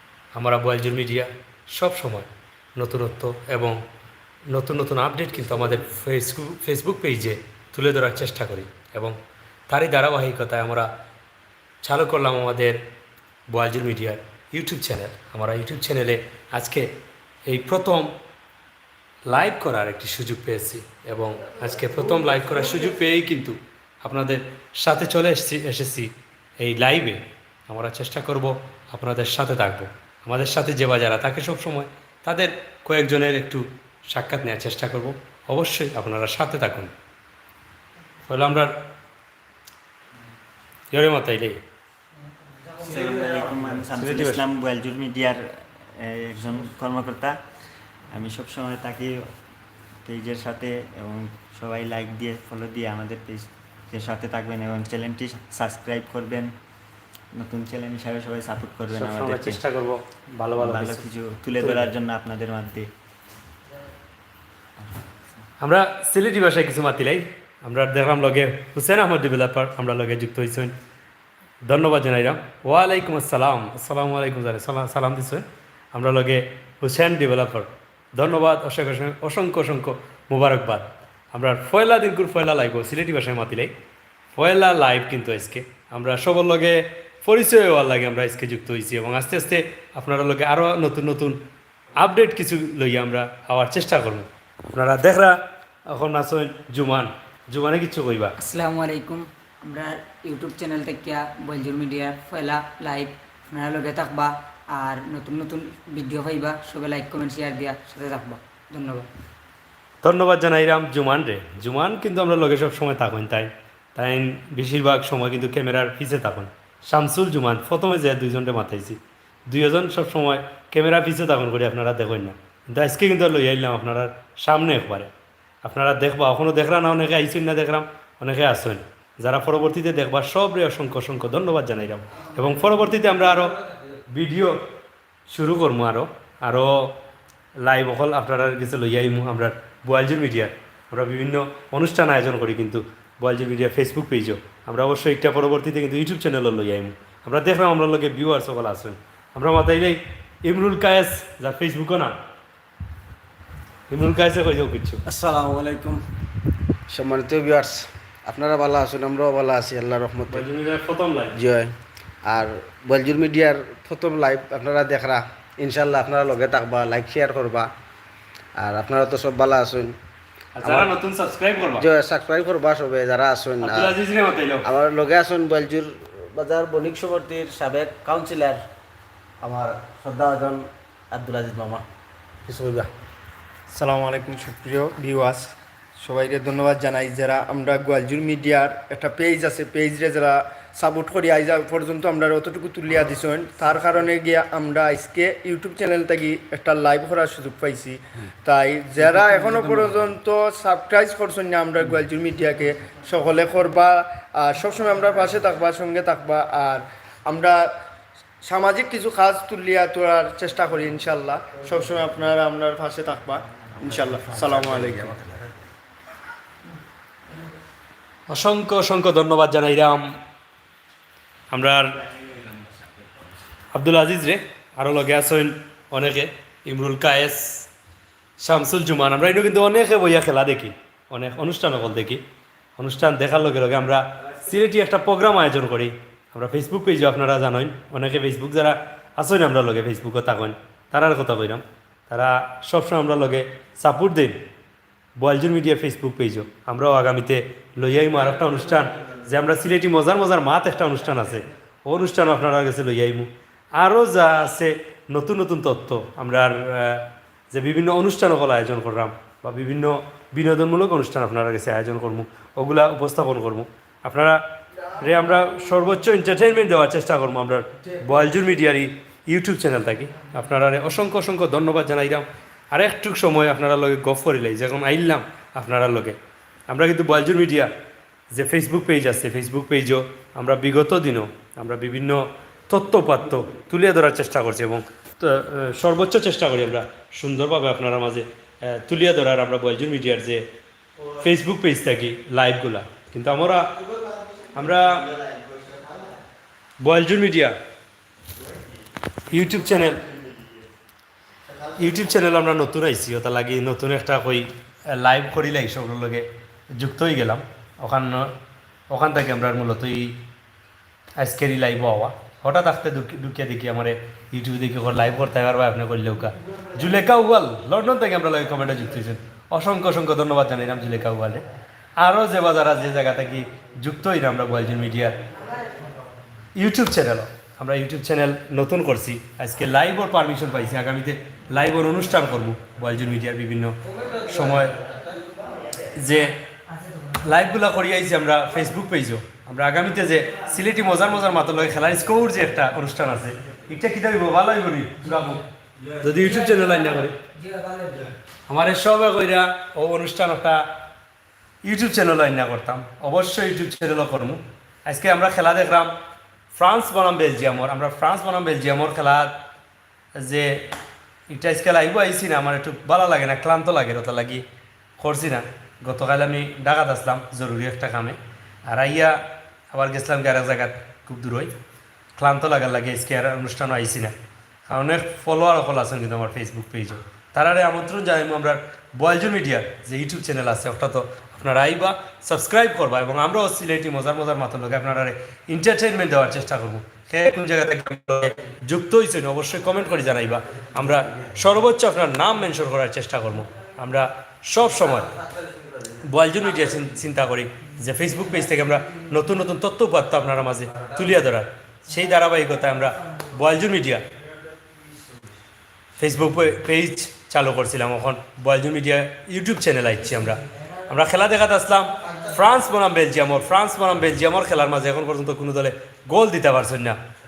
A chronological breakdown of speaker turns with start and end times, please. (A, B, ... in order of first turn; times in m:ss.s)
0:00.4-0:03.8 A
0:04.5-0:09.2 A
0:09.7-0:10.9 A
0:11.8-0:12.8 A
0:13.5-0:16.9 A
0:17.5-0:18.1 A
0:19.3-0:36.9 A
0:38.3-0:38.8 A
0:40.9-0:41.6 A
0:42.8-0:47.4 B
0:44.0-0:44.4 A
0:48.1-0:49.3 B
0:50.0-0:56.5 B
0:57.3-0:59.6 B
0:58.9-1:01.0 A
1:00.6-1:02.9 B
1:01.6-1:01.9 A
1:04.8-1:05.0 B
1:05.6-1:10.8 A
1:11.7-1:23.8 A
1:24.4-1:31.4 A
1:32.0-1:35.4 A
1:35.9-1:38.4 A
1:38.4-1:49.1 C
1:50.0-2:05.1 A
2:05.6-2:13.6 A
2:12.2-2:14.0 D
2:14.1-2:14.6 A
2:15.3-2:17.0 A
2:17.6-2:32.2 A
2:33.9-2:35.0 A
2:35.1-2:36.0 D
2:36.9-2:40.4 D
2:40.3-2:41.4 A
2:41.4-2:47.7 D
2:48.6-2:50.0 D
2:50.6-2:51.9 A
2:50.6-2:50.9 D
2:51.8-2:54.0 D
2:53.6-2:54.6 A
2:54.6-2:58.6 D
2:59.4-3:01.8 D
3:02.5-3:02.9 D
3:03.7-3:27.7 E
3:28.4-3:35.2 E
3:33.8-3:35.6 D
3:38.3-3:40.2 A
3:41.5-3:42.0 A
3:43.7-3:47.7 A
3:48.4-3:52.2 A
3:52.8-4:04.4 A
4:05.2-4:24.4 A
4:25.0-4:36.2 A
4:36.7-4:37.7 A
4:38.3-4:50.4 A
4:51.2-4:53.7 A
4:54.6-4:55.1 A
4:54.6-4:56.2 B
4:56.8-4:57.6 A
4:59.3-5:00.0 A
4:59.3-5:00.7 B
5:01.8-5:08.4 A
5:08.9-5:10.2 A
5:11.2-5:21.5 A
5:22.0-5:25.2 A
5:26.6-5:34.8 A
5:34.0-5:34.4 D
5:35.9-5:36.4 A
5:37.2-5:45.4 A
5:46.0-5:47.2 A
5:46.2-5:48.1 C
5:48.5-5:50.7 A
5:51.6-5:55.9 A
5:56.6-5:59.4 A
6:00.2-6:00.7 A
6:01.3-6:04.4 A
6:05.0-6:09.2 A
6:09.7-6:11.5 A
6:12.2-6:14.1 A
6:14.7-6:35.2 A
6:35.3-6:35.7 D
6:36.0-6:44.0 A
6:46.0-6:57.0 A